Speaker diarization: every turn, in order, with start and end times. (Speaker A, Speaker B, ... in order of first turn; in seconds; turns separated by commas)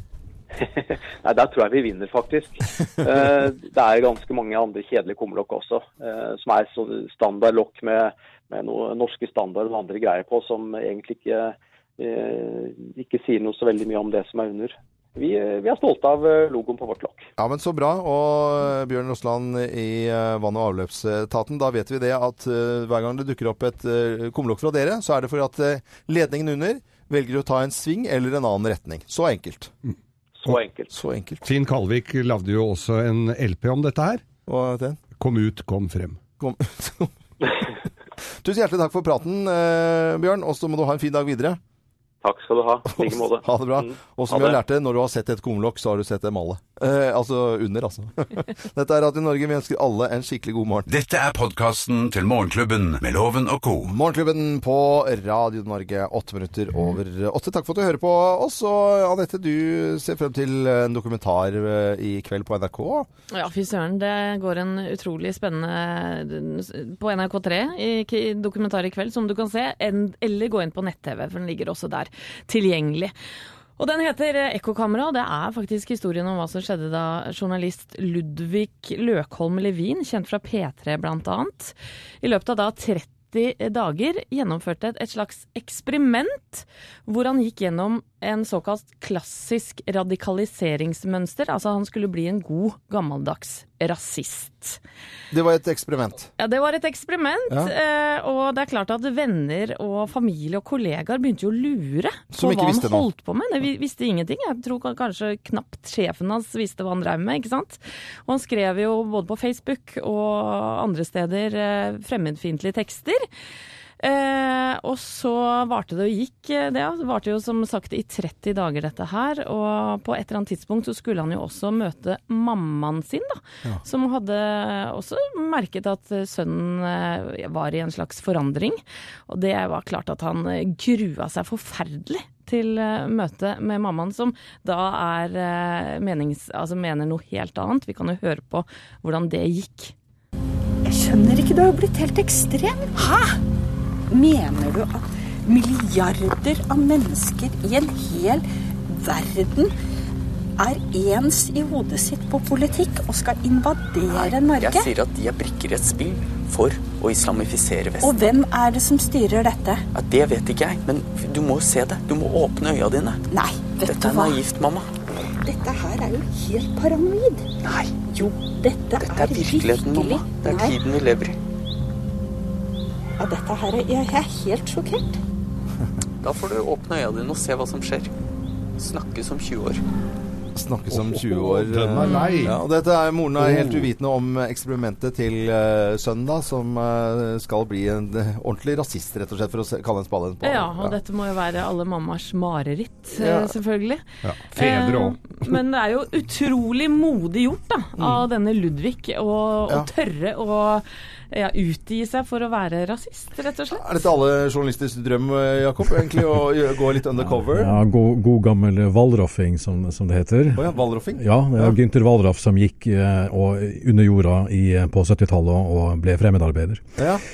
Speaker A: 0.6-17.3, Speaker B: 17.4-29.7, Speaker A: 30.4-30.9, Speaker B: 30.9-31.4, Speaker C: 31.4-34.2, Speaker B: 34.5-35.0, Speaker C: 35.2-36.2, Speaker B: 36.4-37.1, Speaker B: 38.4-41.6, Speaker A: 42.2-44.5, Speaker B: 42.9-50.9, Speaker D: 50.9-54.0, Speaker B: 53.8-63.1, Speaker E: 63.3-73.1, Speaker E: 73.8-94.8, Speaker B: 95.3-96.3, Speaker E: 96.4-113.3, Speaker B: 102.3-103.1, Speaker E: 114.0-139.9, Speaker F: 140.9-143.4, Speaker F: 144.1-149.7, Speaker F: 150.6-154.9, Speaker G: 154.1-158.3, Speaker F: 158.0-159.8, Speaker G: 159.9-163.2, Speaker F: 163.3-164.4, Speaker G: 163.8-164.9, Speaker F: 165.4-167.5, Speaker G: 167.7-167.9, Speaker F: 168.0-170.8, Speaker G: 169.0-171.4, Speaker F: 173.2-175.2, Speaker G: 176.2-178.1, Speaker G: 178.8-179.8, Speaker B: 180.6-191.0, Speaker C: 180.9-182.6, Speaker E: 182.0-182.5, Speaker C: 183.4-183.9, Speaker E: 190.4-203.9, Speaker B: 193.2-193.5, Speaker C: 194.2-195.2, Speaker B: 198.0-198.2, Speaker B: 203.7-207.8, Speaker H: 207.2-216.8, Speaker B: 210.5-211.8, Speaker B: 217.0-217.2